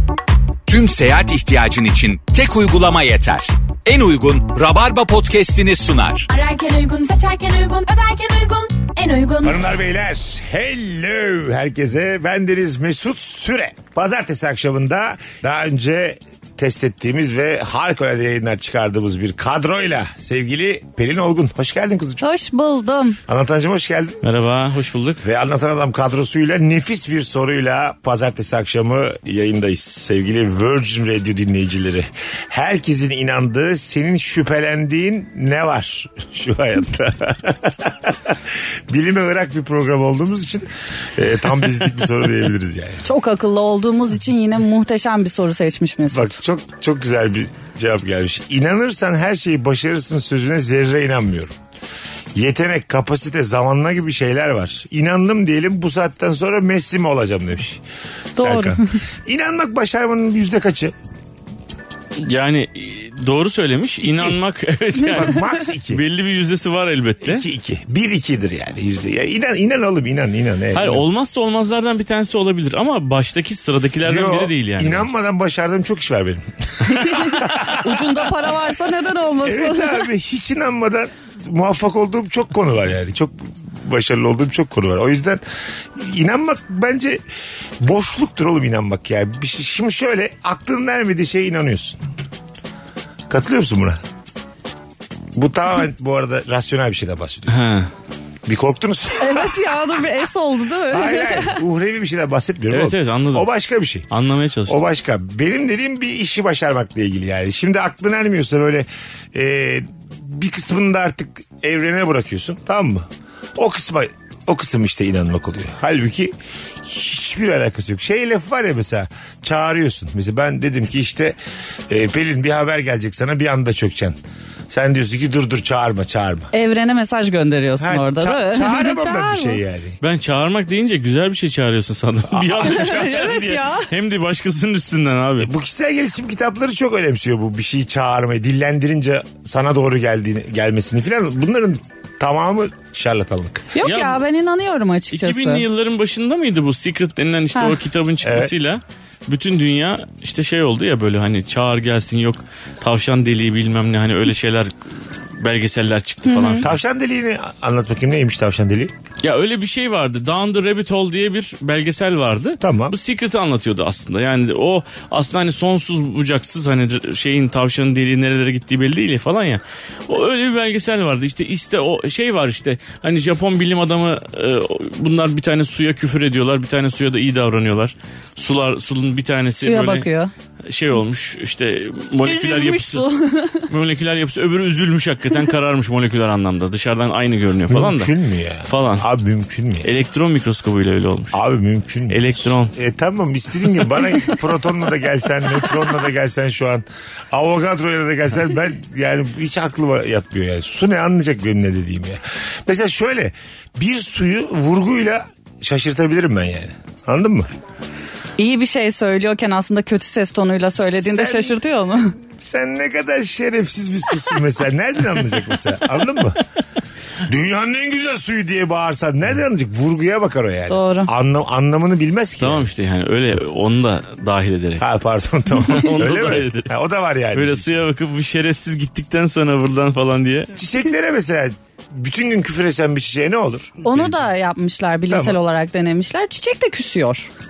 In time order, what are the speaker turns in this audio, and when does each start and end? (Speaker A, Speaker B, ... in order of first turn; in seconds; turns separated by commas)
Speaker A: 0.7-6.3, Speaker B: 6.3-9.6, Speaker C: 9.4-22.2, Speaker D: 22.2-23.2, Speaker C: 23.3-24.2, Speaker E: 24.2-25.2, Speaker C: 25.2-43.0, Speaker D: 43.0-46.4, Speaker C: 46.1-51.5, Speaker C: 52.4-57.8, Speaker D: 58.4-58.9, Speaker C: 58.4-60.9, Speaker E: 62.2-67.5, Speaker C: 64.0-64.4, Speaker C: 65.0-66.0, Speaker C: 67.2-71.0, Speaker E: 70.8-75.1, Speaker C: 74.0-78.3, Speaker D: 76.9-80.1, Speaker C: 79.4-85.4, Speaker C: 86.0-87.2, Speaker C: 87.8-92.0, Speaker C: 93.3-94.0, Speaker C: 95.3-97.6, Speaker E: 97.5-97.9, Speaker C: 98.5-99.6, Speaker D: 99.2-101.6, Speaker C: 100.9-104.1, Speaker E: 102.7-103.5, Speaker E: 104.1-104.8, Speaker C: 104.7-121.4, Speaker C: 121.9-124.2, Speaker C: 124.7-126.5, Speaker D: 126.5-129.6, Speaker C: 127.8-130.0, Speaker E: 130.0-135.5, Speaker C: 132.3-133.0, Speaker D: 132.6-133.9, Speaker C: 135.4-143.7, Speaker D: 143.8-145.7, Speaker E: 143.8-144.2, Speaker E: 145.1-154.8, Speaker C: 148.2-148.5, Speaker E: 155.3-156.7, Speaker D: 156.3-156.7, Speaker C: 156.6-158.9, Speaker E: 159.2-180.1, Speaker C: 162.6-163.0, Speaker D: 179.6-180.3, Speaker E: 180.7-183.1, Speaker D: 182.2-183.7, Speaker E: 183.6-188.1, Speaker C: 187.7-189.9, Speaker E: 188.7-189.1, Speaker E: 189.8-191.4, Speaker C: 191.3-207.5, Speaker E: 192.1-192.7, Speaker D: 208.4-212.2, Speaker C: 210.9-211.6, Speaker C: 212.4-216.4, Speaker C: 217.2-222.7, Speaker D: 220.7-221.1, Speaker E: 222.4-224.9, Speaker C: 224.8-227.8, Speaker E: 225.6-226.7, Speaker E: 227.3-230.6, Speaker C: 230.6-233.9, Speaker D: 233.8-237.3, Speaker C: 235.1-235.4